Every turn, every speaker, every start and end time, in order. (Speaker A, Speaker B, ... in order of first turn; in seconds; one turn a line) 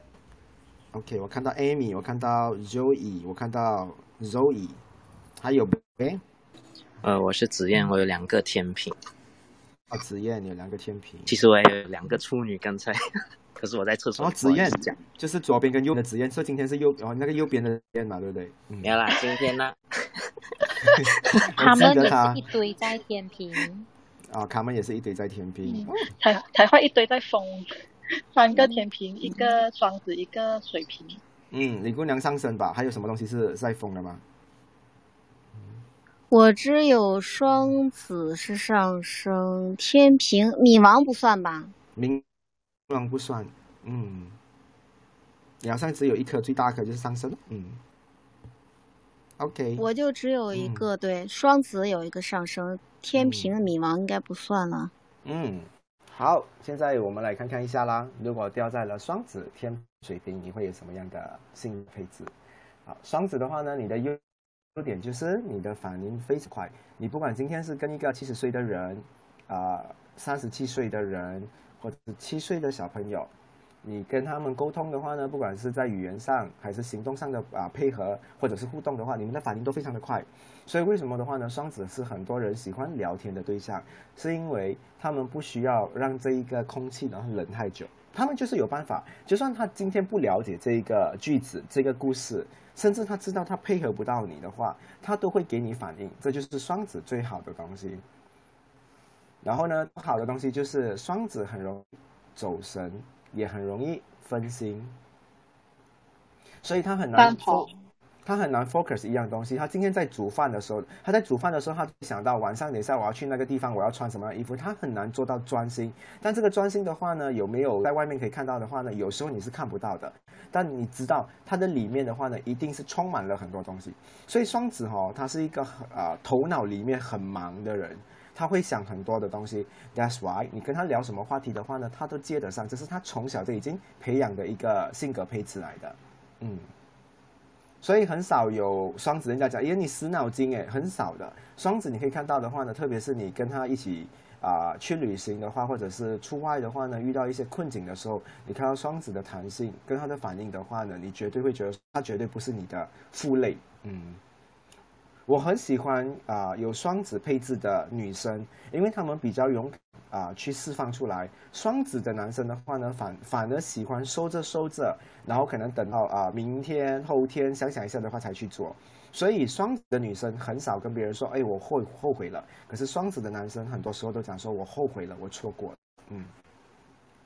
Speaker A: 0.9-4.8
Speaker A: 5.4-6.2
Speaker B: 7.0-8.9
Speaker A: 9.9-11.4
Speaker B: 11.3-12.9
Speaker B: 13.6-15.0
Speaker A: 14.2-19.0
Speaker B: 18.8-19.8
Speaker A: 20.9-22.5
Speaker C: 21.4-23.9
Speaker A: 24.3-26.1
Speaker D: 26.2-27.7
Speaker D: 28.3-31.2
Speaker A: 31.5-34.2
Speaker E: 36.3-41.7
Speaker A: 42.0-42.2
Speaker A: 42.9-44.4
Speaker A: 45.6-47.8
Speaker A: 49.4-49.9
Speaker E: 49.8-54.9
Speaker A: 50.5-50.9
Speaker A: 53.1-53.5
Speaker A: 55.2-62.3
Speaker A: 62.9-64.2
Speaker A: 64.7-73.3
Speaker A: 73.8-98.0
Speaker A: 99.4-104.9
Speaker A: 106.6-107.7
Speaker D: 107.1-107.7
Speaker A: 108.2-136.7
Speaker A: 137.8-154.2
Speaker A: 155.3-176.3